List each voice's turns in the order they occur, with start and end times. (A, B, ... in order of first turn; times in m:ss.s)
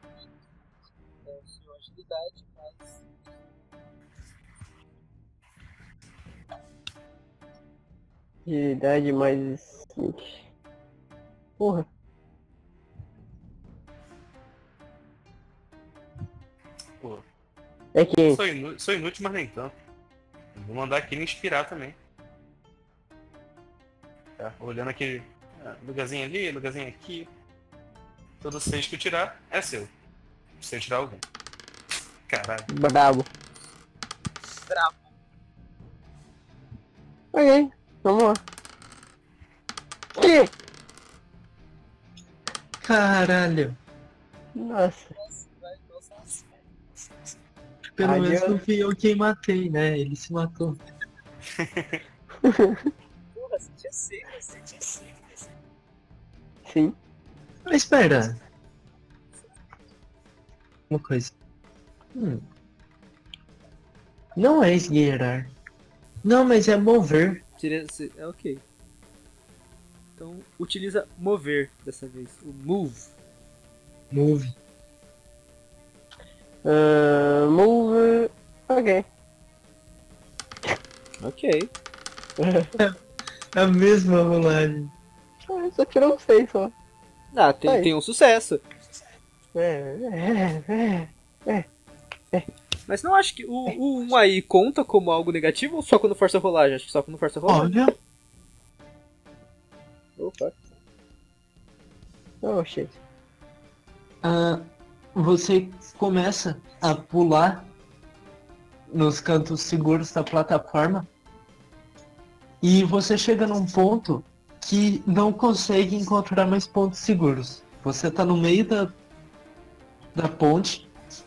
0:01.2-0:03.0 A
0:08.5-0:10.3 B
0:11.6-0:11.9 B
0:18.0-0:18.4 B
0:18.3-0:19.7 C
0:20.6-0:22.0 C
0:24.4-0:27.3 C
0:28.4-0:29.9 C
0:30.6-0:31.2 C
0:32.3-0:32.7 C
0:32.7-0:33.3 B
0:34.7-0:35.0 A
0:37.3-0:38.4 B
0:40.2-0:40.5 B
0:42.8-0:43.8 D
0:44.6-0:45.1 B
0:45.2-0:46.4 A
0:48.0-0:50.8 D
0:48.0-0:48.6 B
0:51.5-0:52.0 C
0:52.4-0:52.9 B
0:53.4-0:54.6 A
0:56.7-0:57.0 B
0:57.7-0:58.4 D
1:00.9-1:01.3 D
1:02.2-1:02.4 D
1:04.4-1:05.5 D
1:06.2-1:07.4 D
1:07.6-1:08.6 A
1:10.2-1:13.1 A
1:14.1-1:14.6 D
1:16.6-1:19.0 B
1:21.2-1:21.7 A
1:22.4-1:22.8 B
1:23.5-1:24.9 D
1:25.5-1:26.7 B
1:27.3-1:28.6 A
1:27.7-1:27.9 B
1:29.6-1:31.7 B
1:32.9-1:37.8 A
1:37.5-1:37.9 D
1:40.2-1:40.6 A
1:42.4-1:43.0 B
1:44.2-1:47.7 D
1:48.9-1:51.1 D
1:52.6-1:58.9 D
2:00.2-2:00.9 D